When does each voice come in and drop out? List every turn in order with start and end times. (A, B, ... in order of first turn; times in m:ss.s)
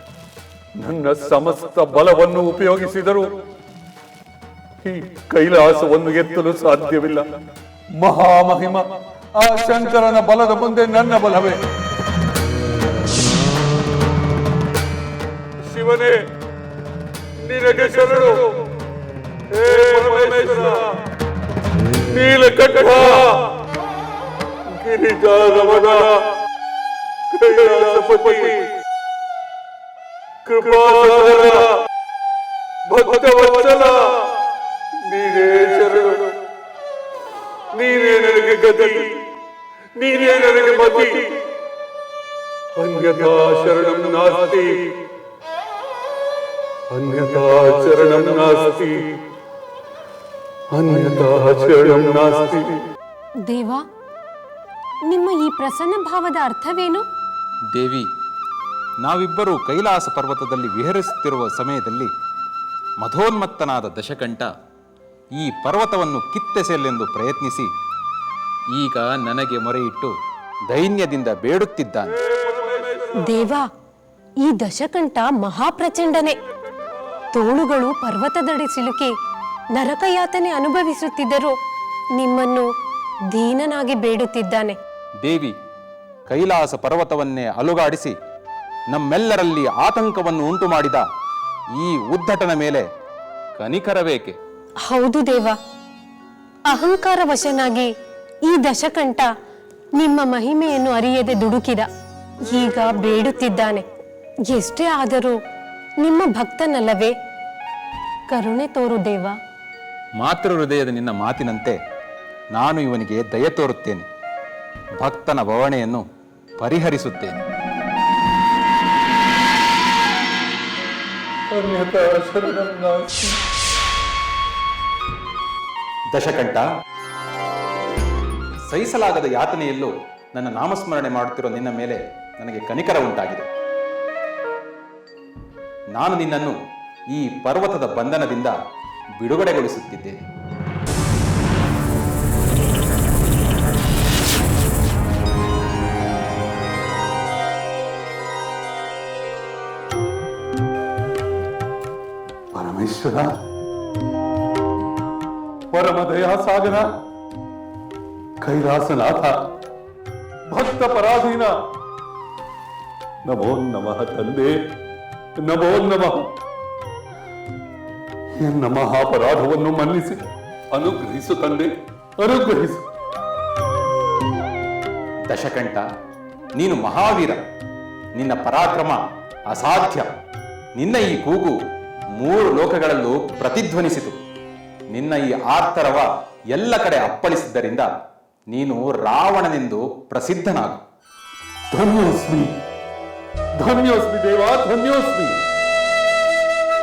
0:00.8-0:03.3 A
0:04.8-0:07.2 A
0:08.0-0:11.6 A
0:15.7-0:16.3 A
0:17.4-0:18.5 A
0:19.5-0:20.9 A
0:22.1-0:23.4 A
0:24.7-0:26.2 A
0:27.3-0:28.7 A
0:30.5-0:31.7 A
0:32.9-0:34.1 A
0:35.1-0:36.3 A
0:37.7-0:39.2 A
0:40.0-0:41.3 A
0:42.8-0:44.9 A
0:46.9-0:49.1 A
0:50.7-0:52.8 A
0:53.4-0:53.8 B
0:55.1-0:57.0 B
0:57.7-0:58.1 C
0:59.0-1:02.1 C
1:03.0-1:04.5 C
1:05.4-1:07.7 C
1:08.7-1:10.1 C
1:10.7-1:12.2 C
1:12.6-1:13.1 A
1:13.2-1:13.7 B
1:14.4-1:16.4 B
1:17.3-1:19.1 B
1:19.8-1:21.6 B
1:22.2-1:22.7 B
1:23.3-1:24.8 B
1:25.2-1:25.6 C
1:26.3-1:28.1 C
1:28.9-1:31.0 C
1:31.7-1:32.9 C
1:33.6-1:34.4 C
1:34.9-1:35.6 B
1:36.7-1:37.9 B
1:38.5-1:39.3 B
1:40.0-1:41.9 B
1:42.5-1:43.8 B
1:44.5-1:45.4 B
1:46.0-1:47.1 B
1:48.3-1:49.4 B
1:50.2-1:51.8 C
1:52.5-1:54.1 C
1:55.0-1:56.0 C
1:56.6-1:57.4 C
2:01.5-2:03.4 A
2:06.1-2:06.6 C
2:08.7-2:13.5 C
2:16.0-2:16.6 C
2:17.1-2:18.6 C
2:19.2-2:20.2 C
2:32.5-2:33.4 A
2:35.7-2:36.9 A
2:38.4-2:39.4 A
2:40.5-2:41.5 A
2:43.3-2:44.6 A
2:45.4-2:46.3 A
2:48.4-2:52.8 A
2:55.3-2:55.8 C
2:56.6-2:57.4 C
2:58.2-3:00.1 C
3:00.8-3:01.6 C
3:02.2-3:04.2 C
3:04.9-3:07.9 C
3:08.5-3:10.8 C
3:11.7-3:12.5 A
3:13.6-3:15.4 A